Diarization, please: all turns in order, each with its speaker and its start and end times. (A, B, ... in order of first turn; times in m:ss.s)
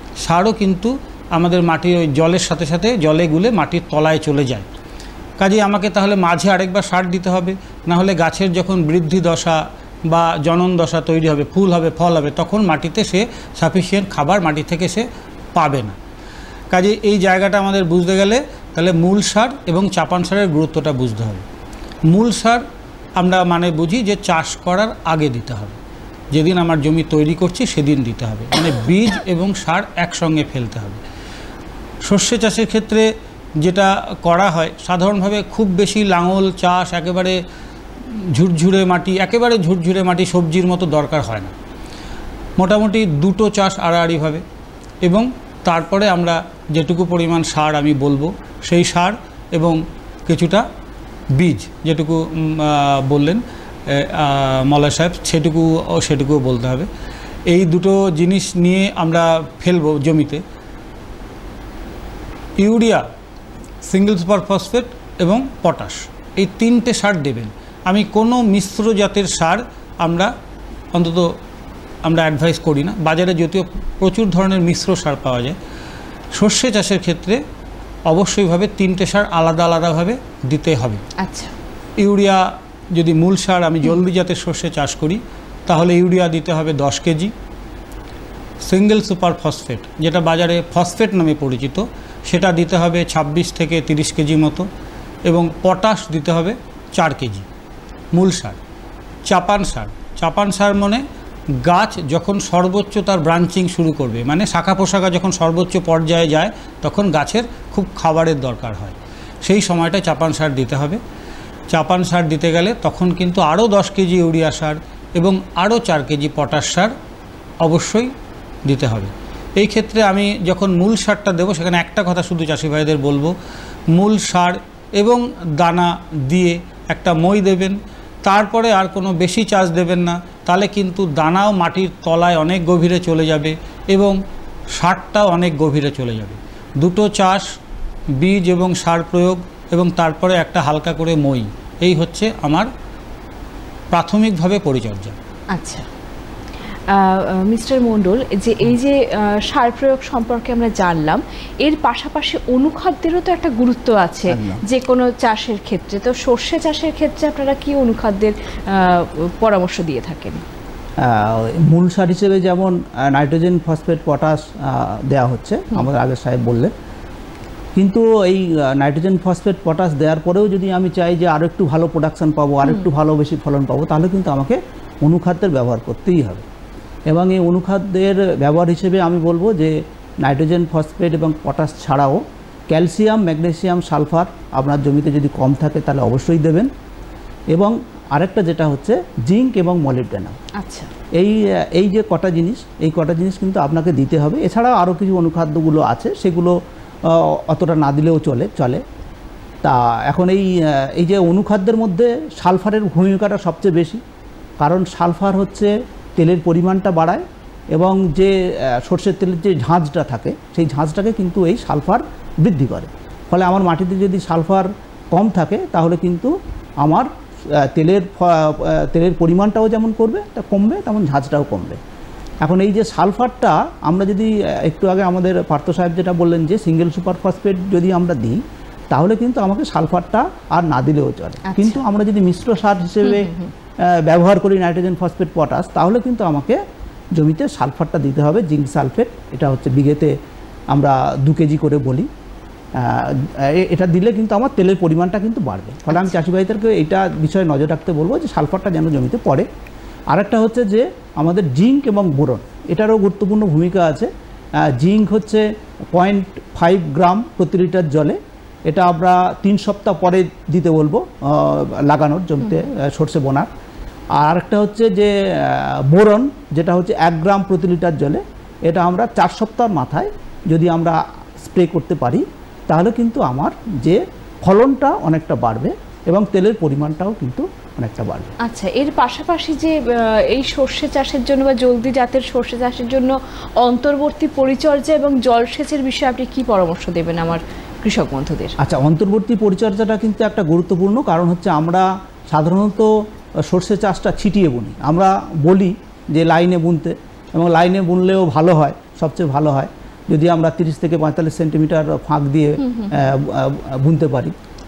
0:00.2-0:04.7 A
0:05.4-0:16.0 A
0:16.7-0:21.4 A
0:22.1-0:22.6 A
0:23.2-0:25.8 A
0:26.3-0:31.0 A
0:32.0-0:33.1 A
0:33.6-0:37.4 A
0:38.1-0:41.5 A
0:42.6-0:44.4 A
0:45.0-0:50.6 A
0:51.3-0:56.9 A
0:57.5-1:00.4 A
1:02.6-1:03.0 A
1:03.8-1:10.3 A
1:10.9-1:11.4 A
1:12.0-1:15.6 A
1:16.4-1:17.4 A
1:18.1-1:21.0 A
1:21.2-1:21.5 B
1:22.0-1:27.3 A
1:28.6-1:34.7 A
1:35.3-1:37.5 A
1:38.1-1:38.6 A
1:39.3-1:41.0 A
1:41.6-1:51.0 A
1:51.7-1:56.9 A
1:57.6-1:58.1 A
1:58.7-2:03.3 A
2:03.9-2:14.2 A
2:14.8-2:17.5 A
2:18.2-2:22.7 A
2:23.9-2:25.2 A
2:25.5-2:25.9 B
2:26.9-2:40.4 B
2:34.3-2:34.6 C
2:41.0-2:46.7 C
2:47.8-2:56.4 C
2:57.1-3:06.7 C
3:07.5-3:10.4 C
3:10.6-3:10.9 B
3:11.2-3:18.8 C
3:19.6-3:24.0 C
3:24.6-3:41.8 C
3:42.4-3:56.6 C
3:51.5-3:51.8 B
3:53.0-3:53.5 B
3:57.1-4:00.2 C
4:00.7-4:02.1 C
4:02.8-4:09.5 C
4:05.9-4:06.2 B
4:10.1-4:23.5 C
4:24.2-4:38.3 C
4:38.4-4:48.6 B
4:48.6-5:04.3 C
5:02.6-5:03.1 B